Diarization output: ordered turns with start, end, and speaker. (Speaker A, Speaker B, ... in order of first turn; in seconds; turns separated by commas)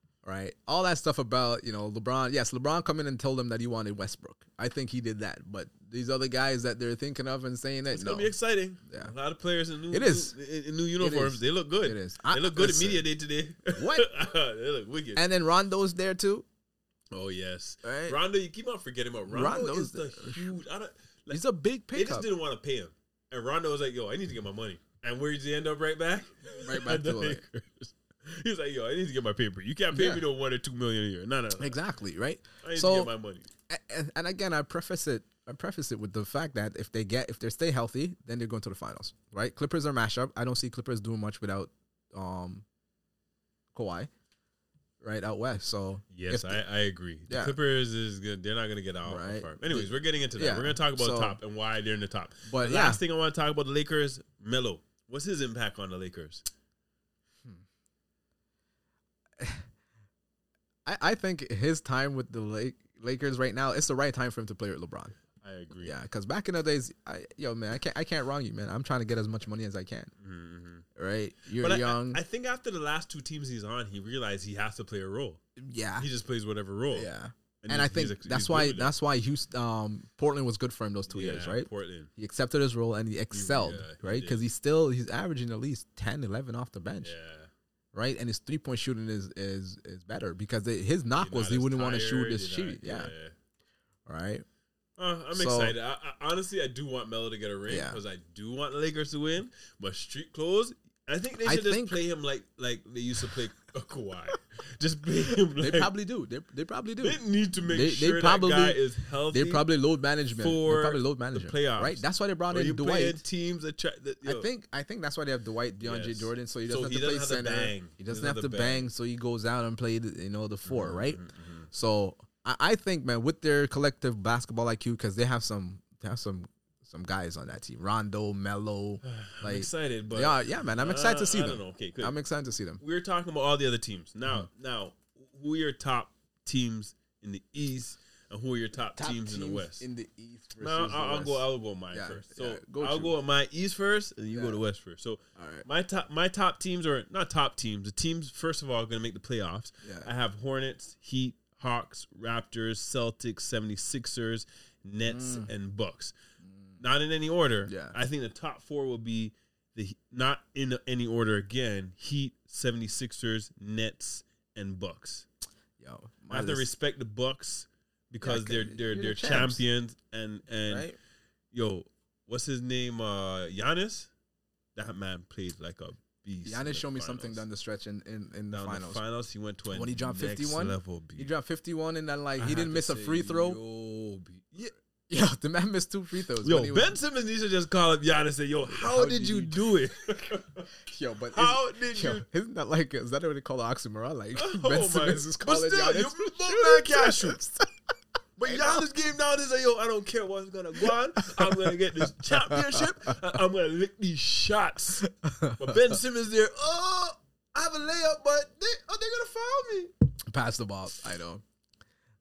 Speaker A: 0.2-8.3, Speaker B: 7.9-15.2, Speaker A: 8.8-9.1, Speaker A: 9.9-10.3, Speaker A: 11.0-13.0, Speaker A: 13.7-14.1, Speaker A: 15.2-16.4, Speaker B: 17.1-21.4, Speaker A: 17.8-18.2, Speaker A: 19.3-20.5, Speaker A: 21.3-22.3, Speaker B: 21.9-31.7, Speaker A: 26.5-27.4, Speaker A: 29.9-30.2, Speaker A: 31.6-33.1, Speaker B: 32.6-33.5, Speaker A: 33.7-42.6, Speaker A: 43.7-44.1, Speaker A: 45.0-46.6, Speaker B: 46.1-56.5, Speaker A: 47.3-47.5, Speaker A: 49.0-51.4, Speaker A: 52.5-53.0, Speaker A: 59.4-59.6, Speaker A: 60.8-65.1, Speaker B: 65.4-65.9, Speaker A: 65.8-70.1, Speaker B: 70.2-70.8, Speaker A: 70.9-72.2, Speaker B: 71.6-75.4, Speaker A: 75.6-76.1, Speaker B: 76.0-77.1, Speaker A: 76.9-87.1, Speaker B: 77.6-78.9, Speaker B: 81.1-82.1, Speaker B: 83.3-84.4, Speaker B: 87.0-87.5, Speaker A: 87.9-93.1, Speaker B: 91.2-93.3, Speaker A: 94.0-94.4, Speaker B: 95.0-105.9, Speaker A: 95.3-95.7, Speaker A: 97.7-98.0, Speaker A: 101.4-102.0, Speaker A: 105.5-113.2, Speaker B: 107.0-109.7, Speaker B: 110.3-114.5, Speaker A: 114.2-121.2, Speaker B: 115.8-118.9, Speaker B: 120.7-121.7, Speaker A: 121.7-132.8, Speaker B: 129.0-132.1, Speaker B: 132.8-139.8, Speaker A: 139.0-143.2, Speaker B: 140.6-156.1, Speaker A: 144.3-144.6, Speaker A: 145.4-145.6, Speaker A: 149.8-150.1, Speaker A: 155.1-155.5, Speaker B: 156.8-165.2, Speaker A: 157.7-157.9, Speaker A: 165.8-166.7, Speaker B: 166.3-170.9, Speaker A: 168.2-169.6, Speaker A: 170.7-171.0, Speaker B: 171.5-174.1, Speaker B: 174.8-177.4, Speaker A: 176.4-179.0, Speaker B: 178.5-181.3, Speaker A: 179.7-183.6, Speaker B: 182.4-184.7, Speaker A: 185.1-187.0, Speaker B: 186.4-190.7, Speaker A: 188.6-189.7, Speaker A: 190.8-197.7, Speaker B: 191.3-192.2, Speaker B: 194.3-197.4, Speaker B: 198.4-209.9, Speaker A: 198.4-198.8, Speaker A: 200.8-203.2, Speaker A: 205.0-206.0, Speaker A: 210.2-211.4